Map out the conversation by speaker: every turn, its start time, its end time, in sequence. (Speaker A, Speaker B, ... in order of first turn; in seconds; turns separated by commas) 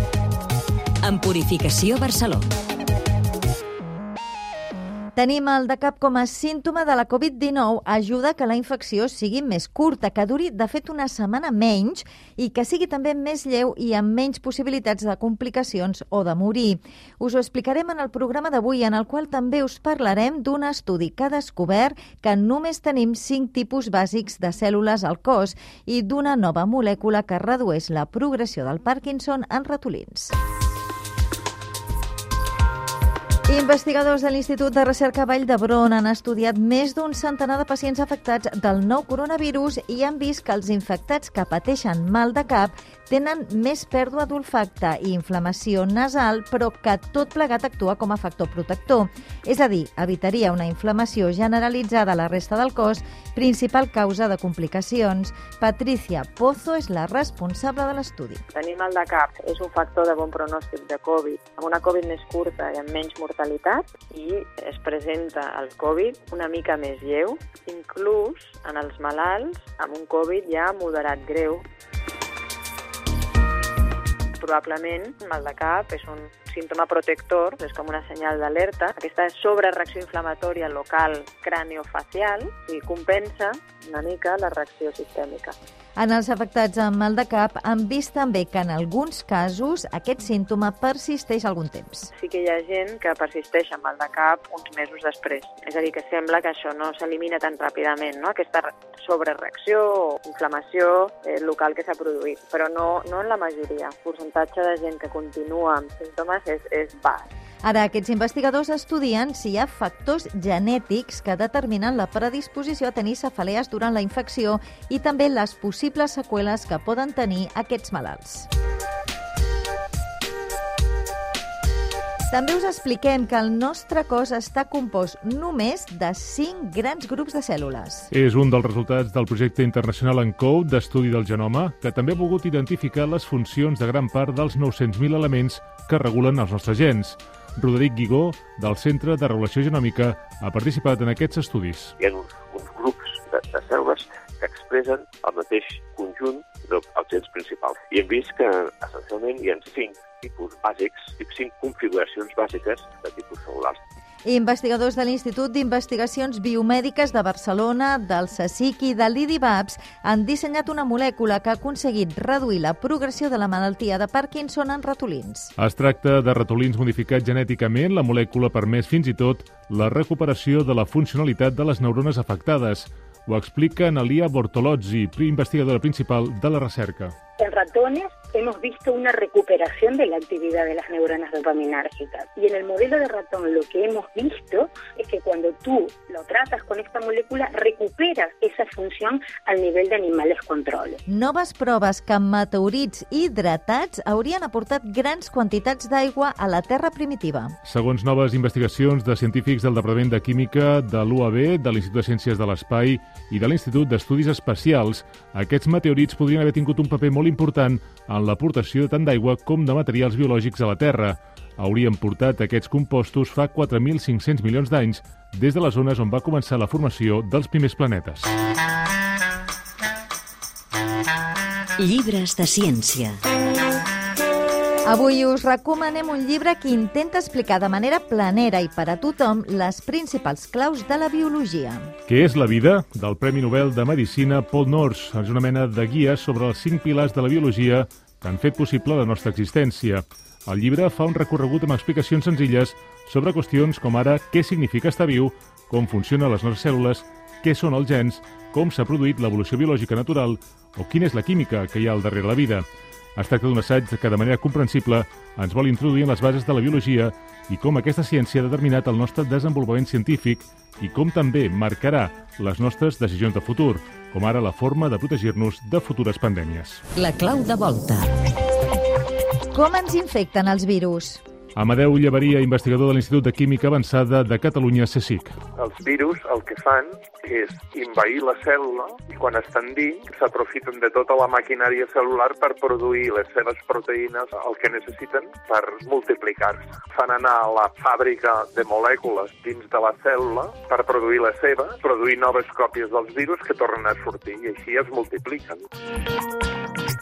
Speaker A: 1.0-2.5, Speaker B: 5.2-30.3, Speaker B: 33.5-58.4, Speaker C: 58.5-71.6, Speaker C: 74.4-85.5, Speaker B: 86.0-92.1, Speaker C: 92.1-107.3, Speaker B: 107.6-118.5, Speaker B: 122.3-128.1, Speaker D: 128.1-141.9, Speaker E: 142.0-153.8, Speaker B: 154.2-165.5, Speaker D: 165.6-177.1, Speaker F: 177.4-191.0, Speaker B: 191.1-197.5, Speaker D: 197.6-218.3, Speaker A: 221.8-223.2, Speaker B: 224.8-231.9, Speaker D: 232.1-252.6, Speaker D: 253.2-266.8, Speaker A: 266.9-268.1, Speaker B: 269.5-271.2, Speaker D: 271.6-275.4, Speaker G: 275.6-295.6